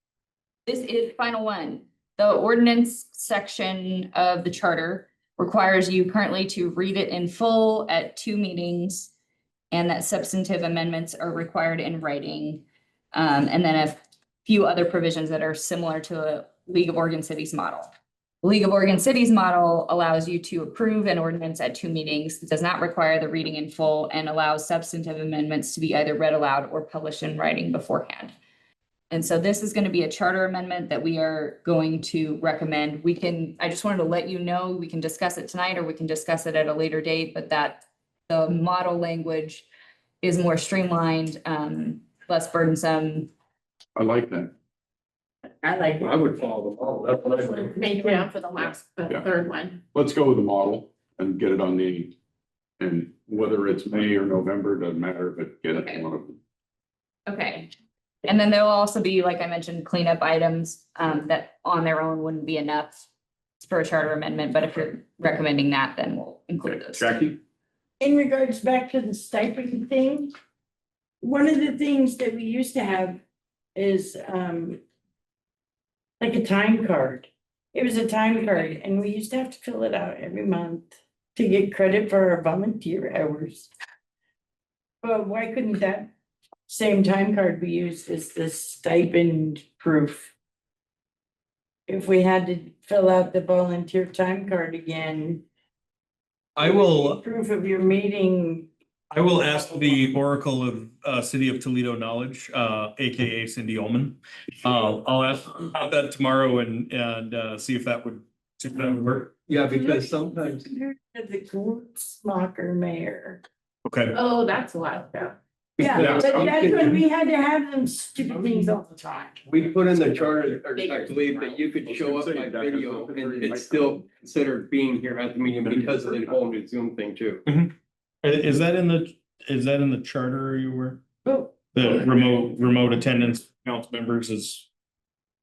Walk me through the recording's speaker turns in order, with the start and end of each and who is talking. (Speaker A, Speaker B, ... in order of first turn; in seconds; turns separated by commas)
Speaker A: 0.7-9.1, Speaker A: 9.7-17.9, Speaker A: 18.4-28.4, Speaker A: 29.1-39.7, Speaker A: 40.2-43.3, Speaker B: 44.0-44.5, Speaker C: 45.6-46.4, Speaker D: 46.0-47.7, Speaker E: 47.6-49.8, Speaker C: 48.0-48.3, Speaker B: 48.6-49.3, Speaker B: 49.9-52.1, Speaker B: 52.8-56.4, Speaker A: 55.7-56.0, Speaker A: 57.3-57.7, Speaker A: 58.2-63.0, Speaker A: 63.6-67.1, Speaker B: 66.6-67.4, Speaker C: 68.0-70.3, Speaker C: 71.2-73.2, Speaker C: 73.8-74.8, Speaker C: 76.2-83.7, Speaker C: 85.0-86.1, Speaker C: 86.7-90.3, Speaker C: 91.9-95.4, Speaker D: 96.6-97.2, Speaker C: 96.6-98.7, Speaker D: 99.1-109.3, Speaker F: 109.5-110.7, Speaker C: 109.7-113.4, Speaker D: 113.9-114.2, Speaker E: 114.1-115.3, Speaker F: 115.8-117.0, Speaker C: 115.8-119.4, Speaker D: 116.0-116.9, Speaker F: 119.5-127.4, Speaker E: 120.7-121.7, Speaker B: 121.8-124.0, Speaker D: 127.5-131.0, Speaker C: 131.3-131.5, Speaker D: 131.7-134.7